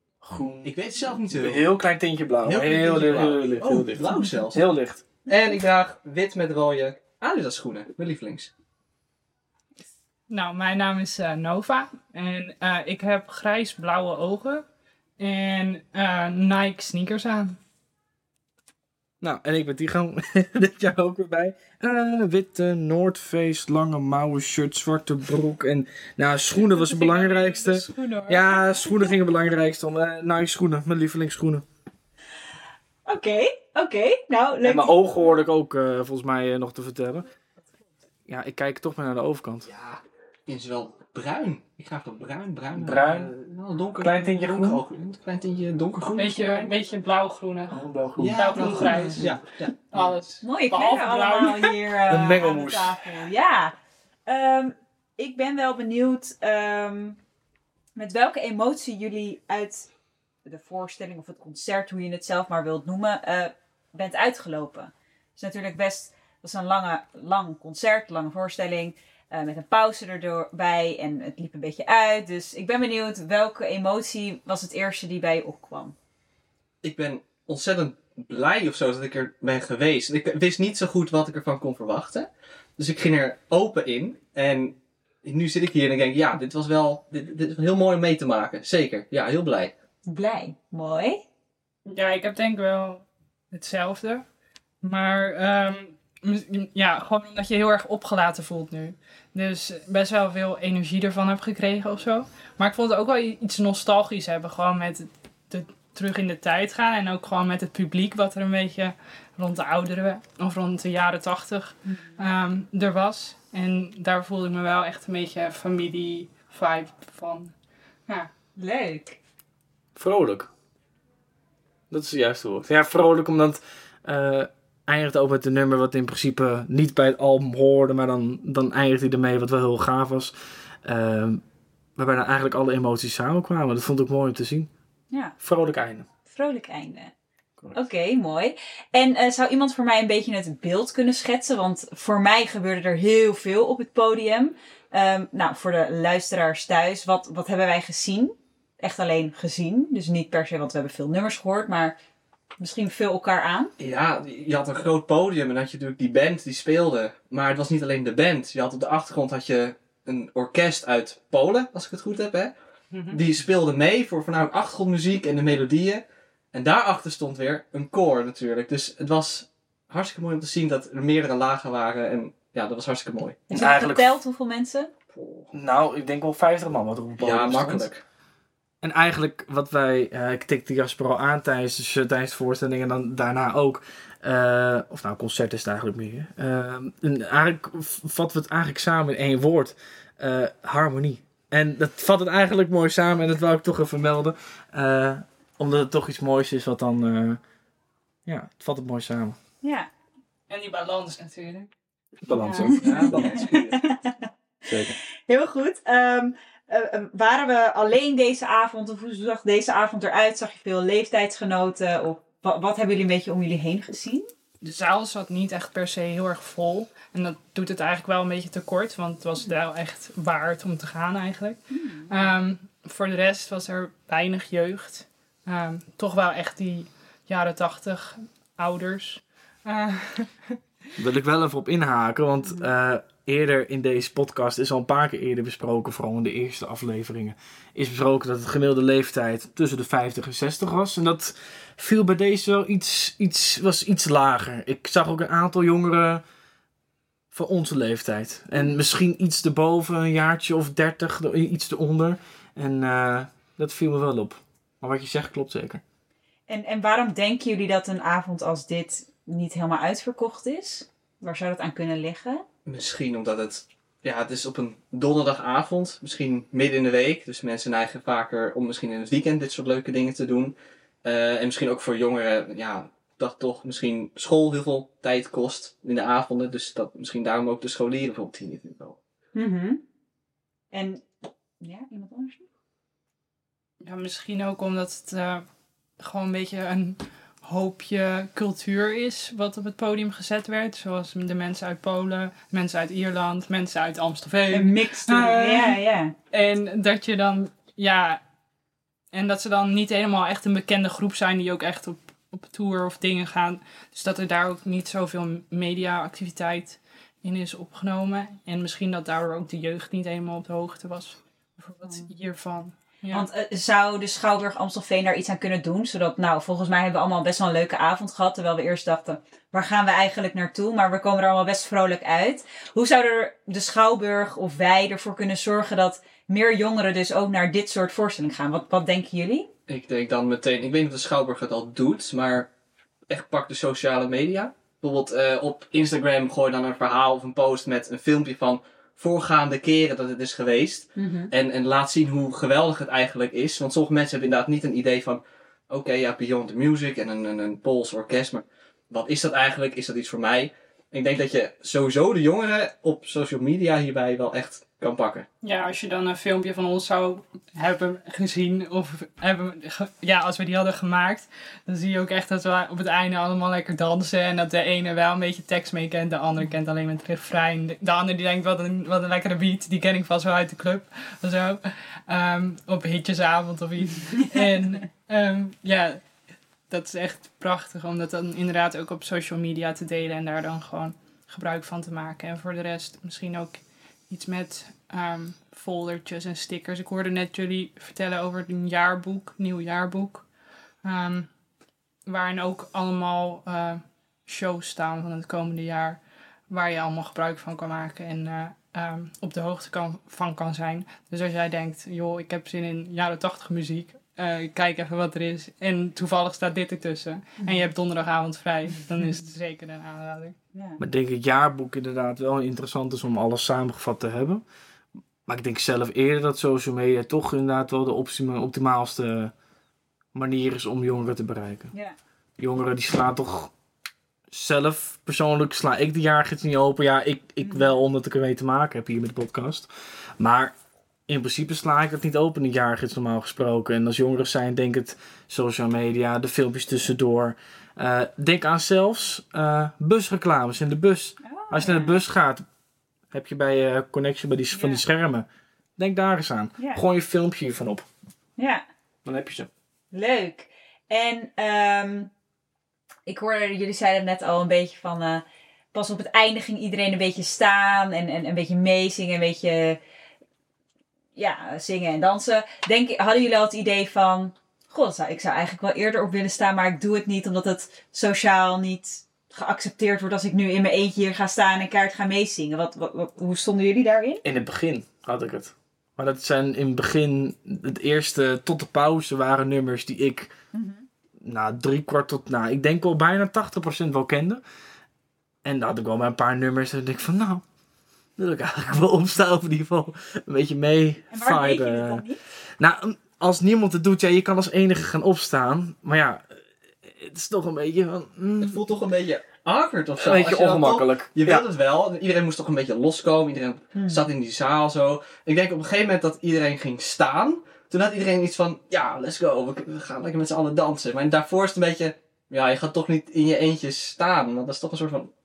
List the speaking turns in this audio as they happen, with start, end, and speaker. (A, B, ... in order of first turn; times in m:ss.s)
0:00.2-0:05.0 A
0:00.6-0:01.6 B
0:02.4-0:04.7 B
0:05.2-0:08.5 B
0:10.3-0:14.6 C
0:15.2-0:17.6 C
0:19.2-0:31.6 A
0:26.6-0:28.6 C
0:33.0-0:35.0 D
0:34.6-0:37.2 A
0:38.3-0:39.7 A
0:39.7-0:46.7 B
0:42.7-0:43.3 A
0:44.0-0:44.8 A
0:46.2-0:47.8 C
0:47.7-0:49.3 A
0:48.2-0:50.1 B
0:48.3-0:49.4 C
0:49.9-0:51.8 C
0:50.4-0:53.7 D
0:52.1-0:53.0 A
0:54.3-0:57.2 D
0:58.0-0:59.9 D
1:00.4-1:15.9 D
1:16.8-1:29.7 B
1:30.1-1:31.2 D
1:31.8-1:34.2 C
1:34.8-1:57.5 C
1:51.8-1:52.2 D
1:58.6-1:59.2 D
1:59.9-2:00.5 A
2:01.9-2:11.4 A
2:12.0-2:14.7 A
2:15.4-2:16.1 A
2:16.3-2:17.1 D
2:17.6-2:17.8 A
2:17.7-2:32.0 D
2:32.6-2:33.7 D
2:33.8-2:42.5 B
2:42.9-2:43.2 C
2:43.1-2:53.4 B
2:53.5-2:54.9 D
2:53.5-2:54.2 A
2:55.1-2:55.5 B
2:55.5-2:57.9 A
2:57.2-2:58.0 B
2:58.8-3:17.4 A
3:18.2-3:19.4 A
3:19.6-3:19.9 D
3:20.5-3:21.7 C
3:22.2-3:23.2 A
3:22.3-3:23.1 C
3:22.6-3:23.9 B
3:23.3-3:24.3 D
3:24.7-3:25.0 A
3:25.3-3:34.3 D
3:34.6-3:50.6 C
3:41.7-3:42.3 D
3:51.0-4:06.2 A
3:52.4-3:52.7 D
4:07.3-4:15.8 A
4:16.5-4:22.4 D
4:22.6-4:39.0 B
4:39.3-4:39.8 D
4:40.7-4:41.0 D
4:41.6-4:42.4 D
4:43.8-4:45.4 C
4:46.0-4:55.8 C
4:54.5-4:56.1 D
4:56.3-4:58.2 C
4:59.1-5:13.3 C
5:11.8-5:12.1 D
5:13.1-5:29.5 D
5:29.7-5:32.5 B
5:33.1-5:55.2 B
5:41.0-5:41.3 D
5:55.4-6:31.3 C
6:32.0-6:50.3 C
6:47.4-6:47.6 D
6:50.5-6:50.8 D
6:50.8-6:54.4 A
6:55.3-6:59.3 A
7:00.1-7:01.7 A
7:02.4-7:03.5 A
7:04.3-7:10.5 A
7:07.4-7:07.8 D
7:11.1-7:22.4 A
7:21.2-7:21.9 D
7:23.1-7:25.2 A
7:24.5-7:24.8 D
7:25.8-7:27.8 A
7:28.4-7:28.6 D
7:29.0-7:29.5 A
7:29.9-7:32.1 D
7:33.0-7:39.8 D
7:41.2-7:54.2 D
7:54.2-8:00.3 A
8:00.5-8:00.8 D
8:01.2-8:04.4 A
8:05.4-8:07.4 A
8:08.2-8:12.0 A
8:11.1-8:12.2 D
8:12.6-8:18.6 A
8:18.4-8:35.1 B
8:20.0-8:21.5 A
8:23.7-8:24.1 D